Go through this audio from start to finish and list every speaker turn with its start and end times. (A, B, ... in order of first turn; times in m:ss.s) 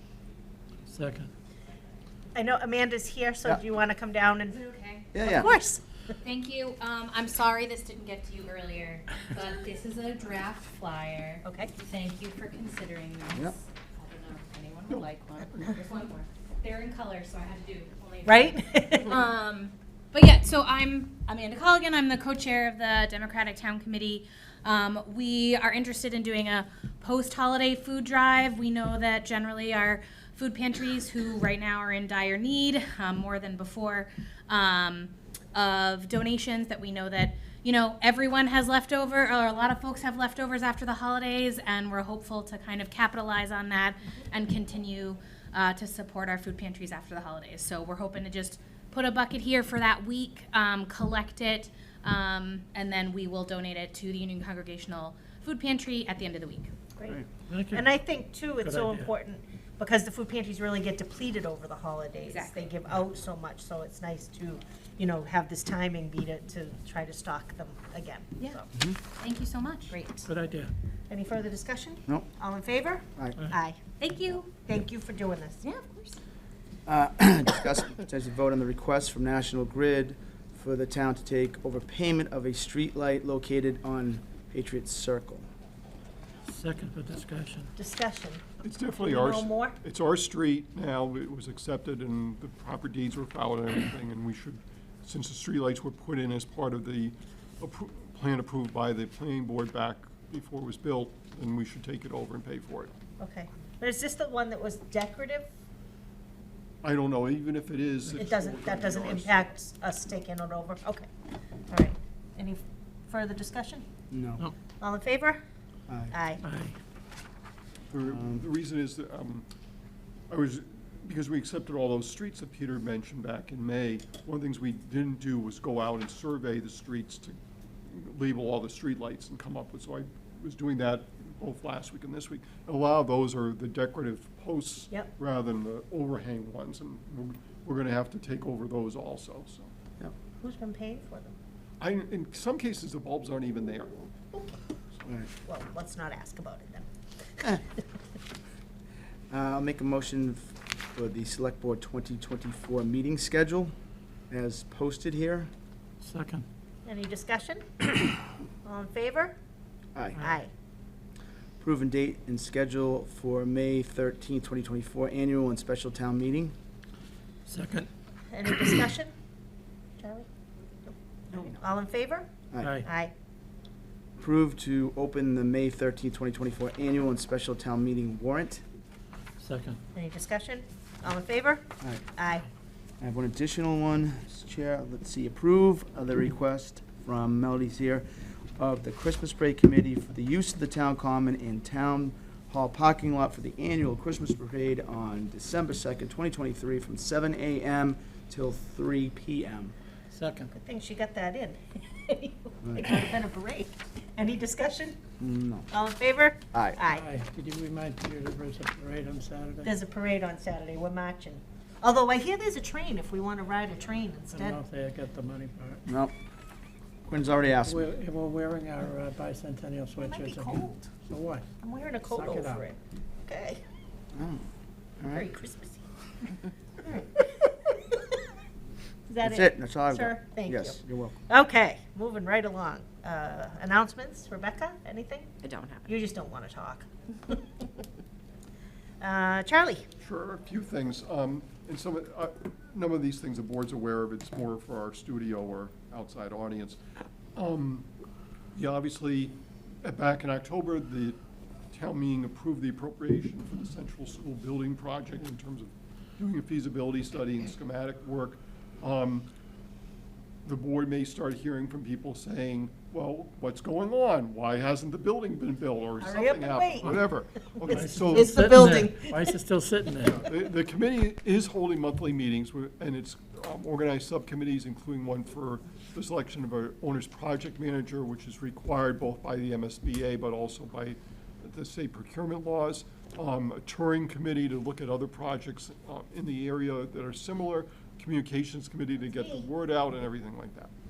0:00.9-0:01.3 A
0:02.4-0:04.6 B
0:04.5-0:05.5 C
0:05.1-0:05.5 D
0:05.2-0:05.8 B
0:06.2-0:56.7 C
0:11.4-0:11.7 B
0:14.9-0:15.8 E
0:18.3-0:19.1 B
0:57.0-1:08.7 B
0:57.5-0:57.9 A
0:58.6-0:59.1 A
1:02.3-1:02.7 C
1:08.7-1:09.0 D
1:09.2-1:10.0 C
1:09.9-1:10.3 B
1:10.2-1:10.7 A
1:11.1-1:13.8 B
1:13.2-1:13.4 D
1:14.0-1:14.5 C
1:14.5-1:15.6 B
1:15.6-1:16.2 C
1:16.9-1:25.5 D
1:26.5-1:27.7 A
1:27.8-1:28.4 B
1:28.6-1:42.9 E
1:29.0-1:29.8 B
1:43.2-1:45.5 B
1:46.8-1:49.5 E
1:48.2-1:51.1 B
1:51.7-1:53.8 B
1:54.1-1:54.5 D
1:54.8-1:55.4 B
1:55.9-1:56.2 D
1:56.1-1:56.4 B
1:56.4-1:56.8 A
1:57.9-1:59.5 E
1:58.1-1:58.5 D
2:00.3-2:07.4 E
2:07.9-2:19.7 E
2:20.4-2:21.3 B
2:21.8-2:23.9 E
2:25.0-2:25.3 D
2:25.4-2:26.8 B
2:29.3-2:33.7 D
2:34.3-2:35.5 D
2:36.0-2:36.5 A
2:36.8-2:38.0 B
2:38.6-2:39.4 B
2:40.0-2:40.2 D
2:40.2-2:40.5 B
2:41.6-2:46.5 D
2:47.5-2:47.9 A
2:48.3-2:49.1 B
2:50.0-2:50.3 B
2:50.9-2:52.3 B
2:52.5-2:52.8 D
2:52.6-2:52.9 A
2:52.8-2:53.1 B
2:54.2-2:58.6 D
2:59.4-2:59.8 A
3:00.0-3:01.6 B
3:02.2-3:02.5 B
3:03.0-3:19.7 D
3:20.1-3:20.5 A
3:20.5-3:25.0 B
3:22.6-3:23.0 D
3:25.2-3:25.7 D
3:25.7-3:27.0 B
3:26.5-3:26.8 D
3:26.9-3:29.7 A
3:29.6-3:34.6 B
3:34.3-3:35.8 A
3:35.9-3:36.1 D
3:37.1-3:37.8 D
3:37.6-3:41.5 A
3:40.0-3:40.9 B
3:41.6-3:43.6 B
3:42.1-3:42.6 A
3:44.2-3:44.5 D
3:45.0-3:45.3 D
3:45.1-3:45.8 B
3:46.8-3:48.0 B
3:49.1-3:55.3 B
3:49.2-3:51.2 D
3:55.4-3:55.9 C
3:55.8-3:57.8 B
3:59.0-3:59.8 B
4:00.0-4:06.8 E
4:07.4-4:07.9 E
4:08.5-4:11.2 E
4:11.7-4:19.3 E
4:20.4-4:28.4 E
4:26.0-4:27.1 B
4:27.6-4:29.4 B
4:27.7-4:30.2 A
4:30.0-4:50.7 E